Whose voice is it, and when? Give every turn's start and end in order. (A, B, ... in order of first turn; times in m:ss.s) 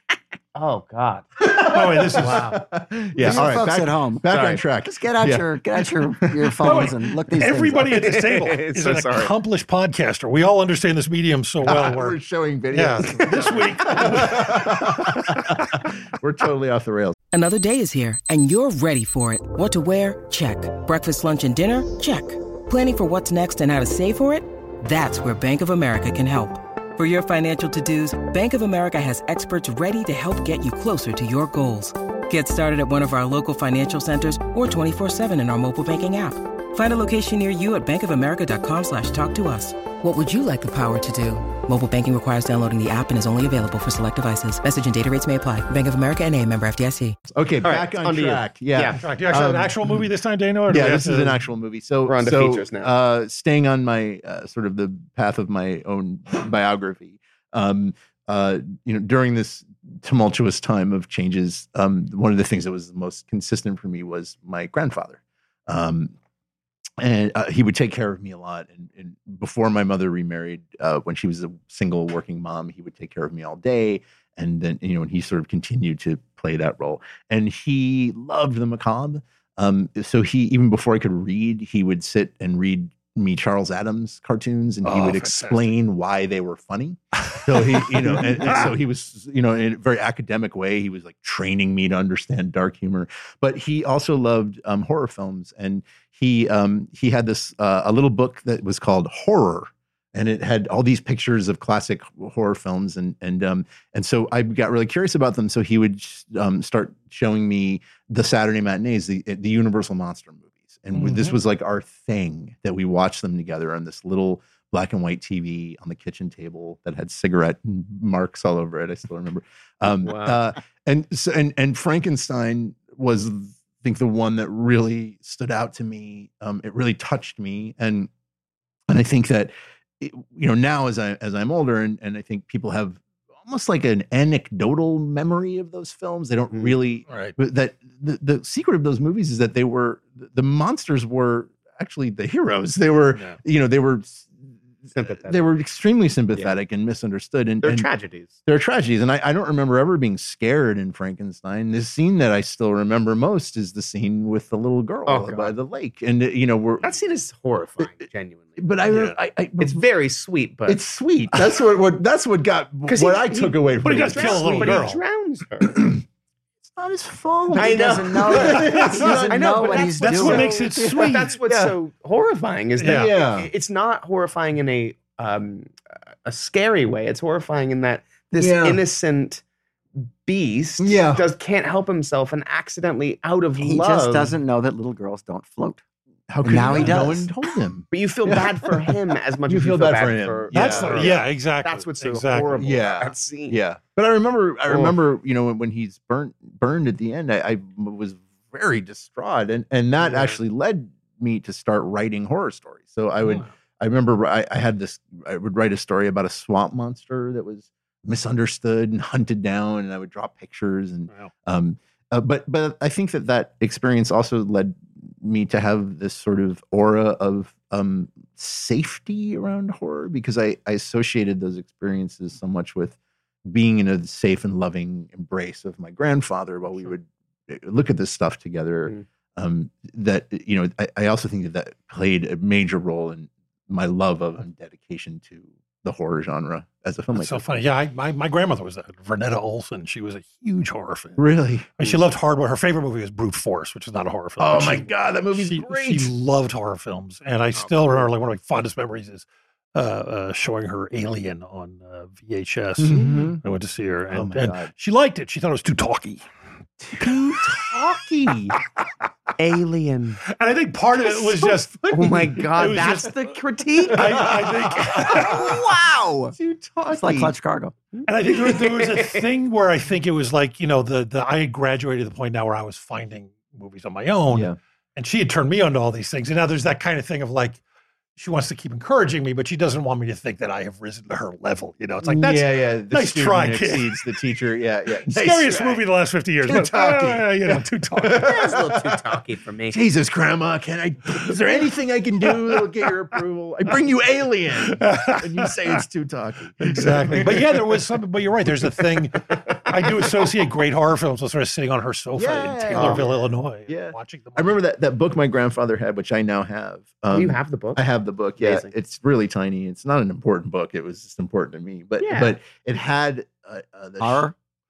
0:00.5-0:01.3 A
0:01.4-0:06.9 B
0:01.7-0:02.6 C
0:03.2-0:08.0 D
0:04.3-0:04.6 A
0:06.6-0:12.2 C
0:07.9-0:09.3 A
0:11.6-0:17.2 B
0:12.7-0:15.0 C
0:17.3-0:47.2 E
0:47.3-0:50.0 B
0:47.6-0:49.0 A
0:49.0-0:51.4 C
0:50.7-1:06.1 B
0:52.0-0:52.9 A
1:07.0-2:08.1 B
1:24.8-1:25.7 C
1:27.7-1:28.7 C
1:50.9-1:51.4 C
2:00.0-2:00.4 A
2:08.9-2:24.3 B
2:17.1-2:17.3 C
2:23.1-2:23.4 C
2:24.9-2:27.9 B
2:24.9-2:25.4 A
2:27.6-2:28.4 A
2:28.4-2:36.9 B
2:35.0-2:35.6 A
2:36.8-2:38.6 A
2:38.6-2:39.8 B
2:38.9-2:39.2 C
2:39.6-2:40.8 A
2:40.7-2:44.9 B
2:42.8-2:45.8 A
2:43.8-2:45.0 C
2:46.6-2:51.8 B
2:47.5-2:50.5 D
2:47.5-2:59.4 A
2:48.4-2:49.2 C
2:50.0-2:51.4 C
2:52.8-2:53.1 C
2:52.8-2:53.5 B
2:58.4-2:58.8 B
3:00.2-3:04.3 A
3:00.8-3:01.2 B
3:03.6-3:05.8 D
3:06.3-3:11.2 B
3:06.4-3:07.3 D
3:07.9-3:13.6 A
3:10.5-3:12.8 C
3:12.4-3:57.4 B
3:14.7-3:15.0 A
3:20.0-3:20.4 A
3:57.1-4:01.2 C
4:01.2-4:01.7 B
4:01.8-4:16.2 C
4:04.4-4:06.1 B
4:07.6-4:08.1 A
4:12.8-4:13.4 B
4:14.1-4:14.7 B
4:16.8-4:18.6 B
4:19.4-4:20.2 A
4:20.3-4:23.3 C
4:21.9-4:24.3 A
4:23.9-4:25.6 C
4:23.9-4:27.3 B
4:25.8-4:26.3 A
4:26.9-4:27.7 D
4:27.9-4:29.3 A
4:28.0-4:37.6 C
4:34.3-4:34.6 B
4:38.2-4:44.2 C
4:42.0-4:45.8 B
4:45.1-4:48.3 C
4:46.4-4:49.0 B
4:48.1-4:49.8 A
4:49.7-4:57.8 B
4:54.6-4:55.8 C
4:56.6-5:04.6 C
4:58.6-5:00.3 B
5:02.2-5:14.3 B
5:02.7-5:03.0 A
5:07.1-5:07.8 A
5:08.4-5:08.7 A
5:12.0-5:12.3 A
5:14.0-5:14.3 D